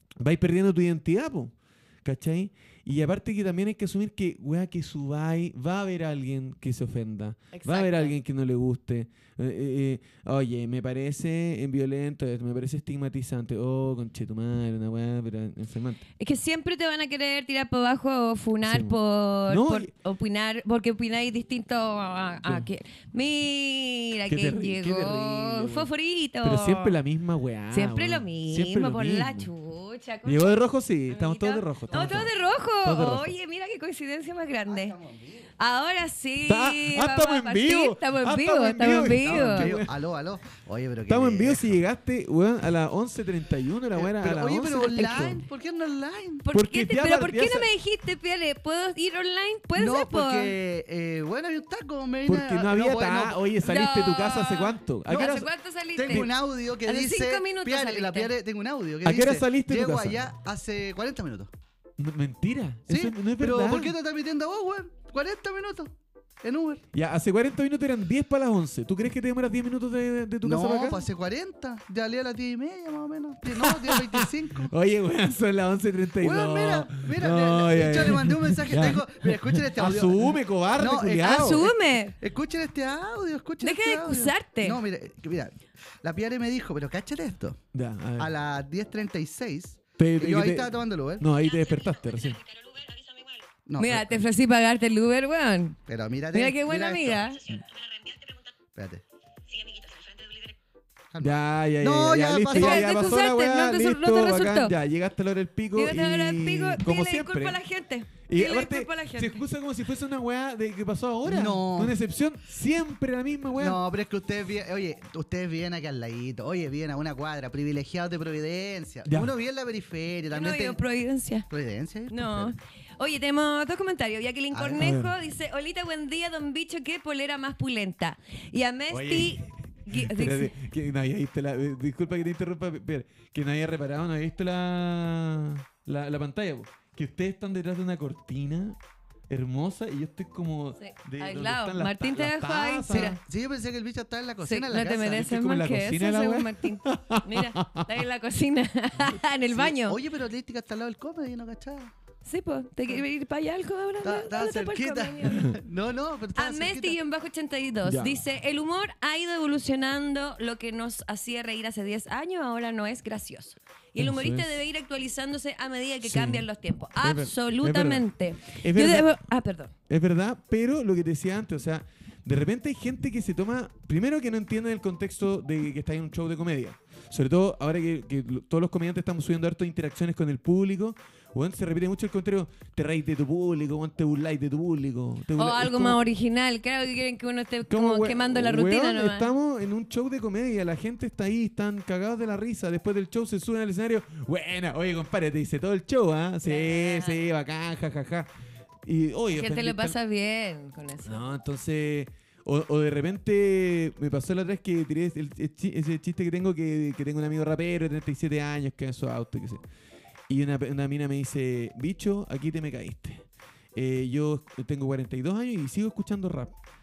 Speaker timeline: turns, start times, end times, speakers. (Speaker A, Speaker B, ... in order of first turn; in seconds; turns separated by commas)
Speaker A: 0.2-16.0, Speaker B: 7.5-8.1, Speaker B: 16.2-27.0, Speaker A: 18.6-19.9, Speaker A: 24.3-25.9, Speaker A: 26.4-29.5, Speaker B: 27.7-35.0, Speaker A: 30.2-33.3, Speaker C: 34.7-35.5, Speaker B: 35.6-39.7, Speaker A: 36.5-39.9, Speaker C: 39.2-41.8, Speaker A: 41.1-45.4, Speaker C: 43.9-46.5, Speaker B: 46.4-50.5, Speaker A: 46.5-47.7, Speaker C: 49.8-53.5, Speaker A: 52.3-55.5, Speaker B: 53.6-56.3, Speaker C: 55.1-61.5, Speaker B: 56.9-58.3, Speaker A: 59.0-60.3, Speaker A: 62.0-64.0, Speaker C: 62.9-66.8, Speaker A: 66.9-71.1, Speaker C: 70.4-74.7, Speaker A: 73.5-81.7, Speaker C: 76.2-87.6, Speaker B: 81.2-82.2, Speaker B: 83.6-84.8, Speaker A: 87.7-88.3, Speaker C: 88.2-91.2, Speaker A: 90.0-92.4, Speaker B: 92.9-93.3, Speaker C: 93.7-94.1, Speaker B: 93.8-95.8, Speaker C: 95.9-97.3, Speaker B: 96.3-97.5, Speaker C: 98.8-99.0, Speaker C: 101.1-103.2, Speaker A: 101.2-107.6, Speaker B: 102.5-104.7, Speaker B: 105.8-109.5, Speaker A: 108.3-113.8, Speaker C: 111.2-112.0, Speaker C: 113.6-120.8, Speaker A: 119.1-119.3, Speaker B: 120.3-121.5, Speaker C: 121.5-122.5, Speaker B: 122.1-130.6, Speaker C: 124.5-124.9, Speaker A: 124.8-125.2, Speaker A: 128.9-138.8, Speaker A: 139.3-143.2, Speaker B: 140.8-143.2, Speaker C: 142.9-145.3, Speaker B: 144.4-150.0, Speaker A: 145.1-147.9, Speaker C: 149.5-151.9, Speaker B: 152.2-155.5, Speaker C: 154.0-157.0, Speaker A: 155.3-155.6, Speaker B: 156.3-169.7, Speaker A: 157.8-158.2, Speaker A: 164.0-164.6, Speaker A: 166.0-166.4, Speaker A: 167.0-169.2, Speaker A: 169.9-186.0, Speaker B: 185.4-189.3, Speaker A: 187.7-198.3, Speaker B: 196.4-197.2, Speaker A: 198.8-200.0, Speaker B: 199.3-201.3, Speaker A: 201.1-209.6, Speaker A: 210.3-216.6